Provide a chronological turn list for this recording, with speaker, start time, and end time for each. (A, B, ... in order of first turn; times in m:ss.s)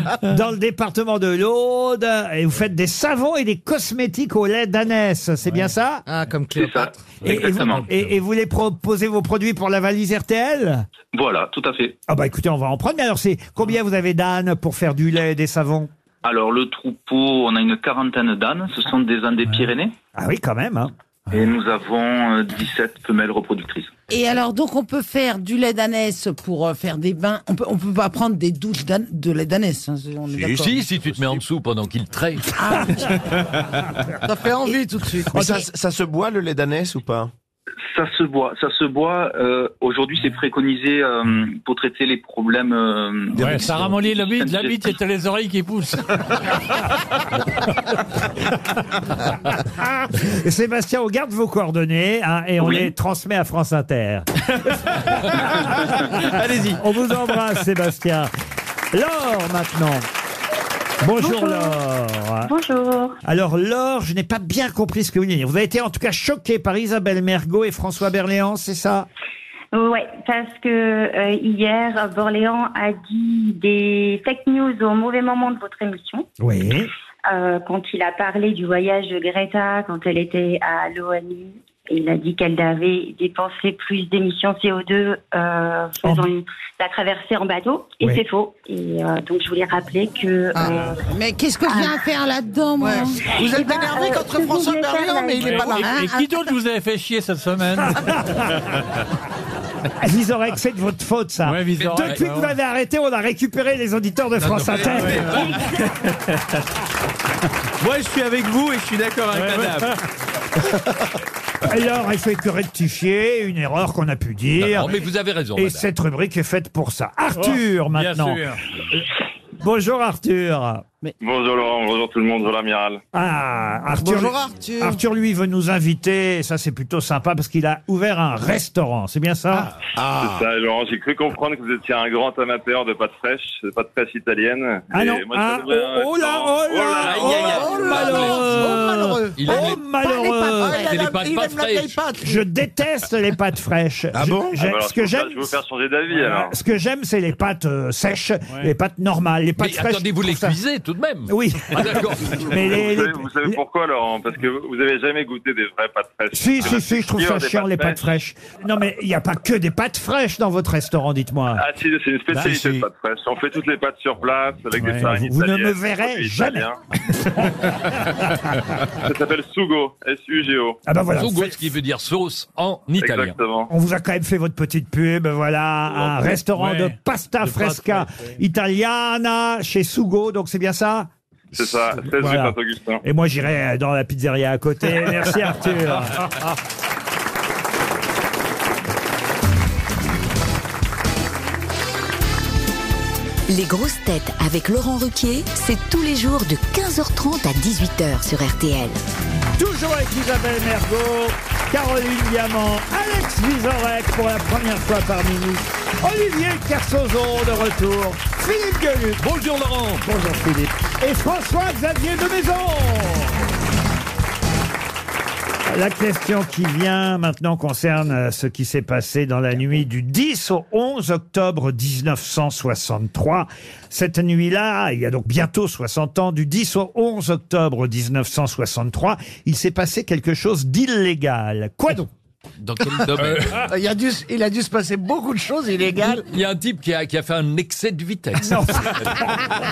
0:00.3-0:06.0 A
0:06.1-0:07.1 B
0:06.5-0:07.9 C
0:07.2-0:10.8 A
0:11.1-0:11.9 C
0:12.1-0:15.9 A
0:16.2-0:19.9 C
0:20.2-0:20.9 A
0:21.3-0:23.9 C
0:24.1-0:30.8 D
0:30.5-0:32.6 E
0:32.6-0:33.1 D
0:34.2-0:35.4 B
0:35.3-0:37.3 F
0:37.8-0:44.9 C
0:43.4-0:46.3 G
0:43.4-0:44.0 F
0:50.1-0:54.3 A
0:55.7-0:58.3 A
0:56.2-0:56.8 H
0:58.9-1:00.0 A
1:01.0-1:02.5 A
1:01.2-1:01.8 I
1:02.4-1:03.2 I
1:03.2-1:09.1 A
1:09.7-1:16.3 I
1:16.4-1:16.9 A
1:17.3-1:31.0 I
1:30.5-1:30.9 B
1:31.1-1:33.2 D
1:32.8-1:36.0 B
1:33.4-1:35.7 I
1:35.4-1:38.2 G
1:35.8-1:36.5 D
1:38.0-1:38.6 A
1:40.0-1:45.4 A
1:41.4-1:42.5 G
1:41.9-1:42.2 E
1:44.4-1:46.1 H
1:44.9-1:45.5 G
1:47.8-1:50.0 H
1:49.3-1:49.9 G
1:51.6-1:54.9 A
1:54.6-1:55.8 E
1:55.5-1:59.0 A
1:57.3-1:58.6 G
1:59.6-2:00.8 A
2:01.2-2:03.0 J
2:03.1-2:09.7 A
2:04.0-2:05.0 B
2:10.0-2:10.4 F
2:10.1-2:17.6 J
2:14.9-2:20.9 A
2:17.0-2:18.6 E
2:17.2-2:19.7 B
2:19.4-2:19.8 E
2:20.0-2:20.9 D
2:20.2-2:22.4 B
2:20.7-2:22.0 E
2:22.2-2:25.5 A
2:24.1-2:24.6 F
2:24.6-2:26.5 J
2:26.1-2:30.6 A
2:29.6-2:32.6 E
2:31.3-2:33.6 A
2:32.6-2:38.0 J
2:36.3-2:41.6 A
2:41.6-2:46.8 J
2:42.3-2:42.8 F
2:44.8-2:45.2 G
2:45.0-2:46.6 A
2:49.0-2:50.8 J
2:50.8-2:51.6 A
2:51.1-2:53.4 E
2:53.0-2:53.7 J
2:53.7-3:01.1 A
2:56.4-2:58.3 G
3:01.5-3:03.0 J
3:02.0-3:06.3 A
3:13.5-3:19.0 K
3:19.6-3:29.2 A
3:29.2-3:30.0 E
3:30.0-3:33.4 A
3:35.7-3:52.1 A
3:52.6-3:53.6 H
3:53.2-3:53.7 E
3:53.6-3:56.3 B
3:56.1-3:59.1 E
3:58.4-3:59.5 A